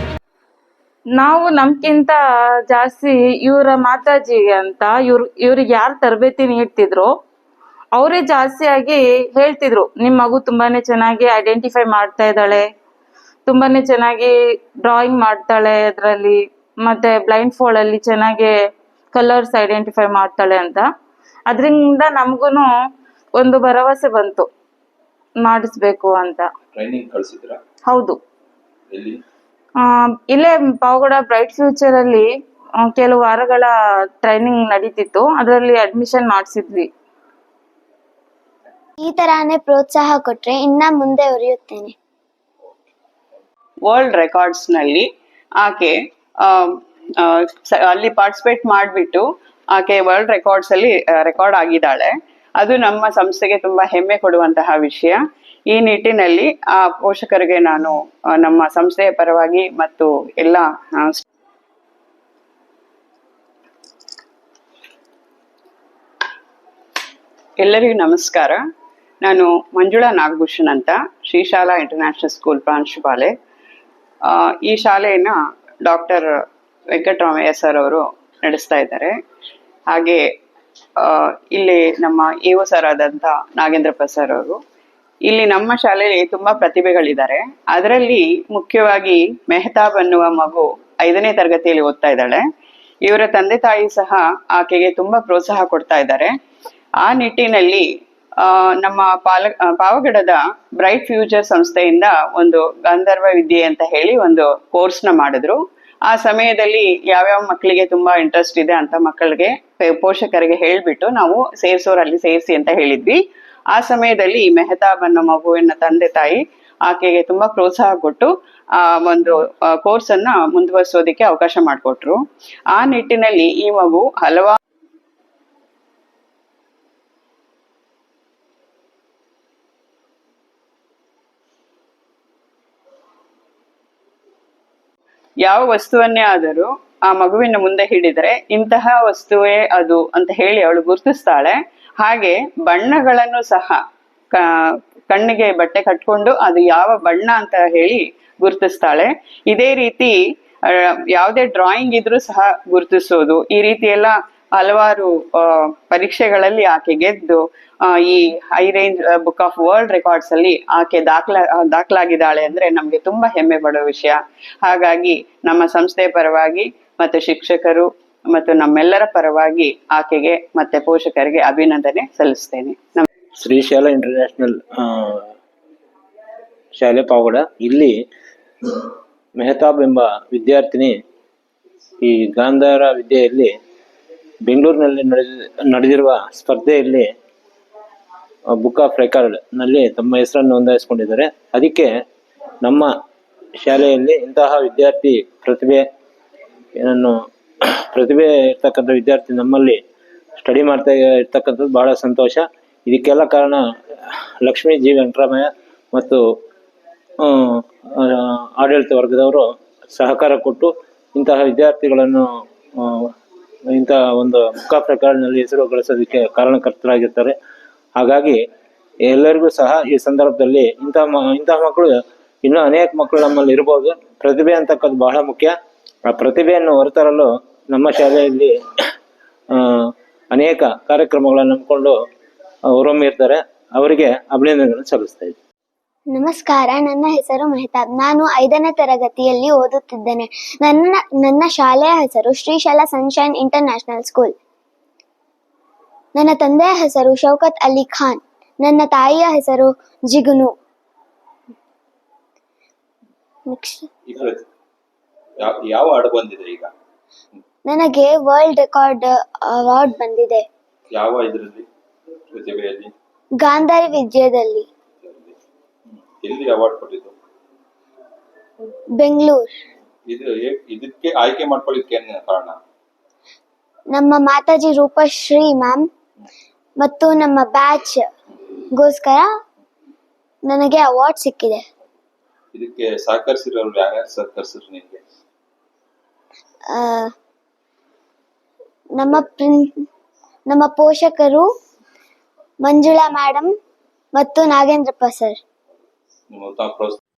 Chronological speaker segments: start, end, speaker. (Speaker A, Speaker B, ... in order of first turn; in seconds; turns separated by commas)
Speaker A: 1.2-2.2, Speaker A: 2.7-7.1, Speaker A: 8.0-12.7, Speaker A: 13.5-14.3, Speaker A: 14.8-18.5, Speaker A: 19.1-20.9, Speaker A: 21.5-22.7, Speaker A: 23.4-24.5, Speaker A: 25.4-26.5, Speaker B: 26.8-27.6, Speaker A: 27.9-28.2, Speaker B: 28.9-29.2, Speaker A: 29.8-32.3, Speaker A: 32.8-33.7, Speaker A: 34.2-36.9, Speaker C: 39.0-41.9, Speaker D: 43.9-45.1, Speaker D: 45.6-55.2, Speaker D: 55.7-61.2, Speaker D: 67.6-68.6, Speaker D: 69.2-73.3, Speaker D: 74.3-76.3, Speaker D: 76.9-79.2, Speaker D: 79.9-80.2, Speaker D: 81.0-84.6, Speaker D: 85.3-92.4, Speaker D: 93.0-96.3, Speaker D: 97.0-97.9, Speaker D: 98.4-113.2, Speaker D: 113.7-124.6, Speaker D: 135.4-143.8, Speaker D: 144.4-150.2, Speaker D: 150.7-173.1, Speaker E: 173.4-175.3, Speaker E: 176.8-178.0, Speaker E: 178.7-181.0, Speaker E: 182.0-183.5, Speaker E: 184.4-187.1, Speaker E: 188.5-191.9, Speaker E: 192.6-192.9, Speaker E: 193.6-195.8, Speaker E: 196.8-199.8, Speaker E: 200.4-206.2, Speaker E: 207.2-213.1, Speaker E: 213.7-217.4, Speaker E: 218.0-218.4, Speaker E: 219.1-225.6, Speaker E: 226.1-228.5, Speaker E: 229.5-232.0, Speaker E: 232.8-235.4, Speaker C: 236.1-244.3, Speaker C: 246.2-250.5, Speaker C: 253.5-253.9, Speaker B: 254.1-254.5, Speaker B: 255.4-256.7, Speaker C: 257.7-260.4, Speaker B: 260.9-261.7, Speaker B: 262.3-262.9, Speaker C: 263.4-264.7, Speaker B: 265.0-265.4, Speaker B: 266.2-267.1, Speaker C: 269.0-269.5, Speaker B: 270.1-272.6, Speaker C: 273.9-275.9, Speaker C: 276.8-278.1, Speaker C: 278.8-279.3, Speaker C: 280.5-281.6, Speaker B: 282.5-285.0, Speaker C: 286.7-287.1, Speaker C: 289.0-289.8, Speaker C: 290.5-291.5, Speaker C: 292.6-293.5, Speaker C: 294.1-295.4, Speaker B: 296.3-297.0